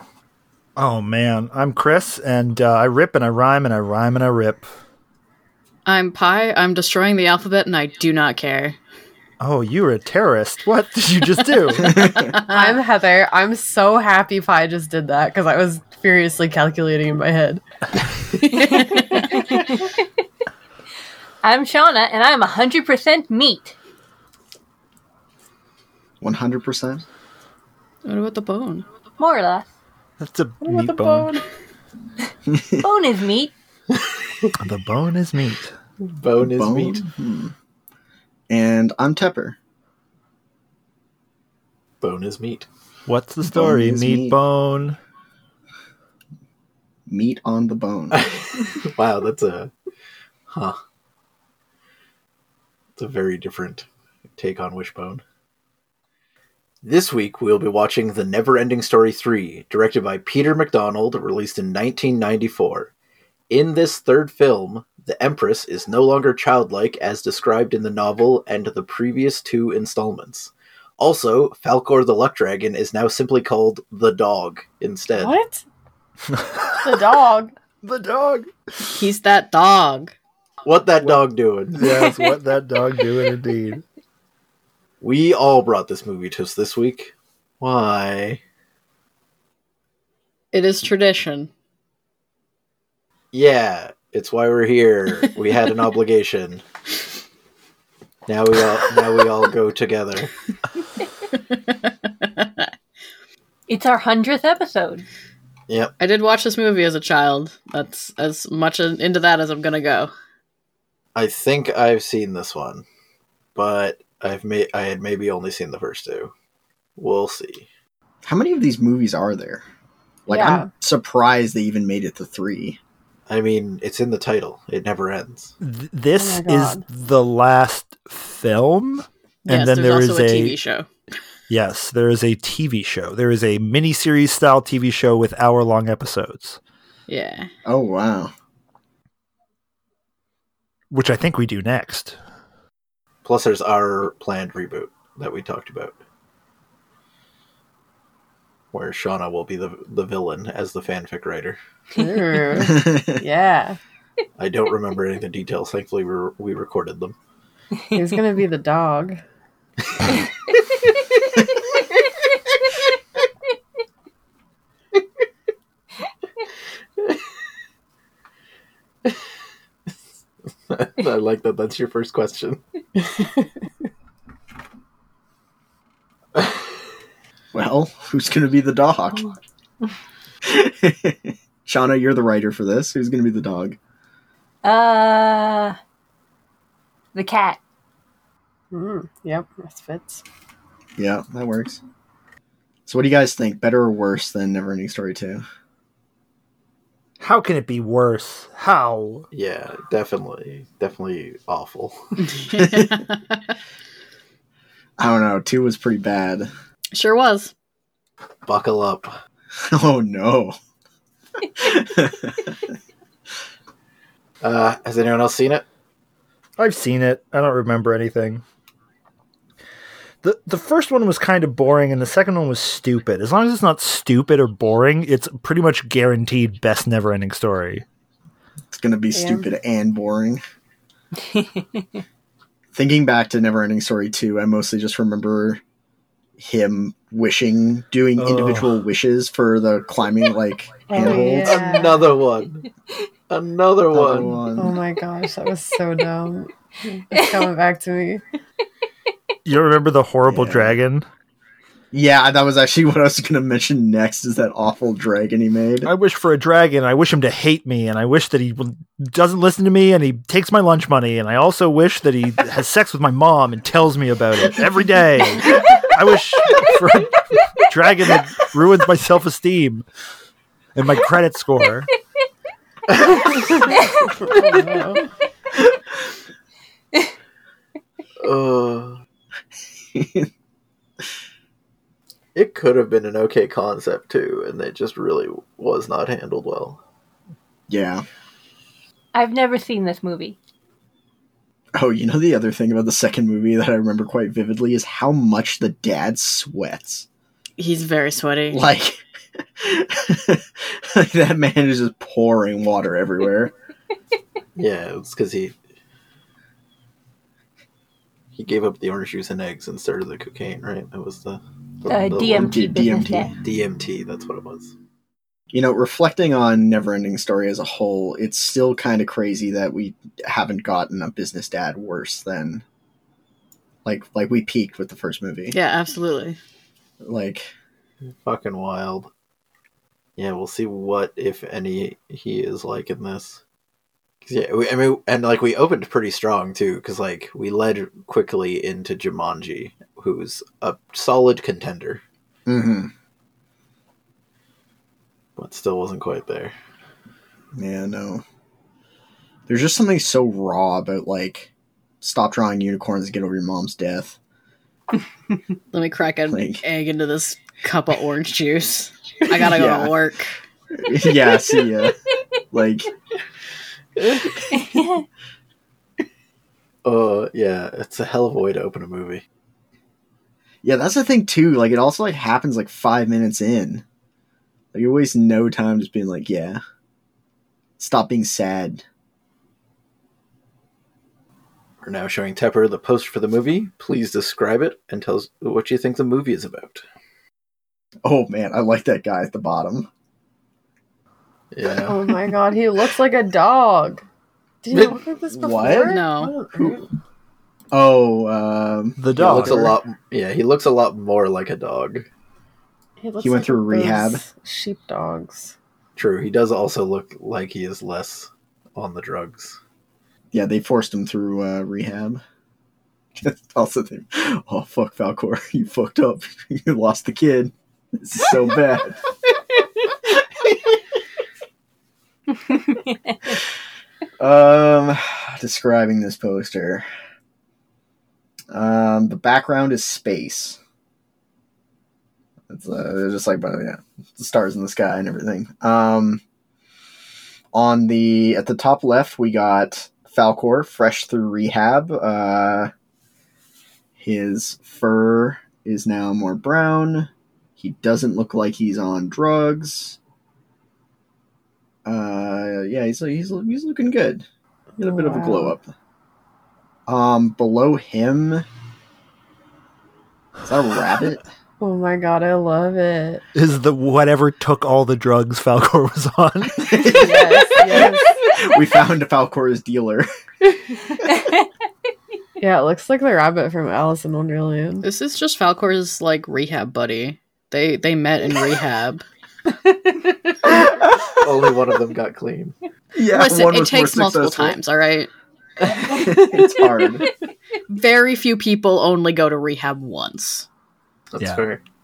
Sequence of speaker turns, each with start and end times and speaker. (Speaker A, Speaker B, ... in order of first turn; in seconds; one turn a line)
Speaker A: 0.8-4.7
Speaker B: 5.8-8.8
Speaker A: 9.4-12.1
Speaker C: 11.9-12.2
Speaker B: 11.9-12.8
Speaker D: 12.5-17.6
Speaker B: 18.6-19.0
Speaker E: 21.4-23.7
Speaker C: 26.2-27.0
Speaker B: 28.0-28.8
Speaker E: 29.2-29.7
Speaker A: 30.2-31.3
Speaker D: 30.6-31.4
Speaker E: 32.8-33.5
Speaker A: 34.6-35.7
Speaker F: 36.1-37.0
Speaker C: 36.4-37.5
Speaker C: 38.5-39.6
Speaker F: 42.0-42.7
Speaker A: 43.1-45.0
Speaker C: 43.5-44.4
Speaker C: 47.1-48.2
Speaker F: 48.1-49.7
Speaker F: 50.5-50.8
Speaker F: 53.0-53.9
Speaker F: 54.4-55.2
Speaker F: 56.8-62.9
Speaker F: 63.5-75.3
Speaker D: 75.1-75.6
Speaker A: 76.3-77.0
Speaker D: 76.8-77.5
Speaker A: 77.8-78.5
Speaker B: 78.9-80.1
Speaker F: 80.6-81.8
Speaker A: 81.7-83.8
Speaker E: 81.8-82.4
Speaker F: 85.0-88.4
Speaker B: 90.5-91.5
Speaker F: 93.3-96.6
Speaker F: 98.3-100.3
Speaker B: 101.4-102.7
Speaker E: 103.7-105.0
Speaker F: 105.7-105.9
Speaker B: 106.0-110.1
Speaker F: 111.1-112.8
Speaker F: 113.5-116.3
Speaker F: 117.0-117.7
Speaker C: 118.2-119.6
Speaker C: 120.2-122.8
Speaker D: 120.3-120.7
Speaker F: 123.3-125.5
Speaker A: 125.6-130.6
Speaker D: 126.1-126.8
Speaker B: 129.5-130.9
Speaker A: 131.5-136.6
Speaker B: 137.1-137.5
Speaker C: 137.6-138.3
Speaker A: 140.9-142.2
Speaker F: 143.2-145.9
Speaker F: 148.7-151.6
Speaker D: 151.9-153.8
Speaker C: 152.6-153.2
Speaker F: 154.4-157.1
Speaker D: 157.9-159.2
Speaker F: 170.7-172.6
Speaker D: 173.2-173.5
Speaker C: 177.5-179.3
Speaker C: 180.4-183.8
Speaker E: 184.6-185.8
Speaker E: 187.1-187.6
Speaker D: 188.7-190.2
Speaker C: 191.0-191.8
Speaker C: 192.8-195.4
Speaker A: 197.2-199.2
Speaker F: 199.3-202.1
Speaker B: 202.2-203.5
Speaker C: 202.5-203.0
Speaker C: 205.0-206.5
Speaker B: 206.9-207.5
Speaker F: 208.4-209.1
Speaker C: 209.6-210.6
Speaker C: 211.5-212.6
Speaker F: 214.4-215.6
Speaker A: 216.6-218.4
Speaker A: 220.2-227.8
Speaker C: 228.7-230.4
Speaker D: 229.1-229.5
Speaker C: 232.7-235.6
Speaker C: 236.4-241.6
Speaker A: 238.2-238.8
Speaker D: 240.9-242.1
Speaker F: 241.4-242.7
Speaker F: 243.3-244.4
Speaker C: 243.9-244.8
Speaker D: 244.6-248.2
Speaker A: 249.4-251.0
Speaker C: 250.2-250.8
Speaker C: 251.9-255.9
Speaker A: 255.8-269.8
Speaker A: 270.7-271.9
Speaker F: 272.9-273.3
Speaker D: 274.1-275.0
Speaker F: 278.2-279.0
Speaker C: 279.9-280.3
Speaker F: 282.3-286.8
Speaker C: 287.7-288.0
Speaker E: 289.1-290.4
Speaker C: 291.7-297.1
Speaker B: 297.6-298.6
Speaker C: 298.5-299.0
Speaker C: 299.6-303.5
Speaker F: 304.6-305.5
Speaker F: 308.3-312.6
Speaker E: 311.9-313.3
Speaker C: 312.2-313.3
Speaker F: 313.4-314.7
Speaker C: 315.5-322.6
Speaker C: 323.8-325.6
Speaker B: 325.5-326.4
Speaker C: 327.0-327.5
Speaker F: 328.1-329.1
Speaker F: 330.2-333.4
Speaker F: 334.2-342.0
Speaker C: 342.4-342.9
Speaker F: 345.4-346.5
Speaker C: 347.6-348.2
Speaker C: 349.5-351.5
Speaker C: 352.0-354.2
Speaker B: 355.7-360.4
Speaker C: 356.3-356.6
Speaker C: 359.4-360.0
Speaker C: 360.7-361.9
Speaker C: 362.5-362.9
Speaker E: 364.5-365.0
Speaker F: 366.8-369.2
Speaker C: 370.6-373.8
Speaker C: 374.7-376.6
Speaker C: 377.8-378.8
Speaker F: 381.8-386.8
Speaker C: 388.0-389.9
Speaker F: 391.5-392.0
Speaker D: 391.8-394.0
Speaker D: 394.6-396.9
Speaker C: 395.3-396.9
Speaker B: 395.9-396.3
Speaker C: 397.7-399.7
Speaker A: 399.0-399.7
Speaker F: 399.1-402.1
Speaker D: 403.0-405.5
Speaker C: 403.2-404.2
Speaker F: 405.9-409.6
Speaker C: 410.3-412.2
Speaker C: 413.1-419.0
Speaker C: 420.0-420.8
Speaker C: 424.2-426.9
Speaker C: 428.5-430.6
Speaker C: 432.5-436.2
Speaker C: 437.5-442.7
Speaker C: 443.9-450.0
Speaker C: 451.8-454.2
Speaker D: 454.8-455.6
Speaker C: 454.8-455.7
Speaker C: 456.9-458.4
Speaker C: 460.4-461.2
Speaker D: 461.6-463.2
Speaker A: 463.3-466.8
Speaker C: 466.6-470.1
Speaker D: 466.8-468.2
Speaker D: 472.4-474.9
Speaker B: 474.8-479.0
Speaker C: 480.4-481.2
Speaker F: 481.2-482.5
Speaker C: 482.9-484.6
Speaker B: 483.1-485.1
Speaker C: 485.7-487.0
Speaker B: 487.7-490.5
Speaker F: 491.1-491.6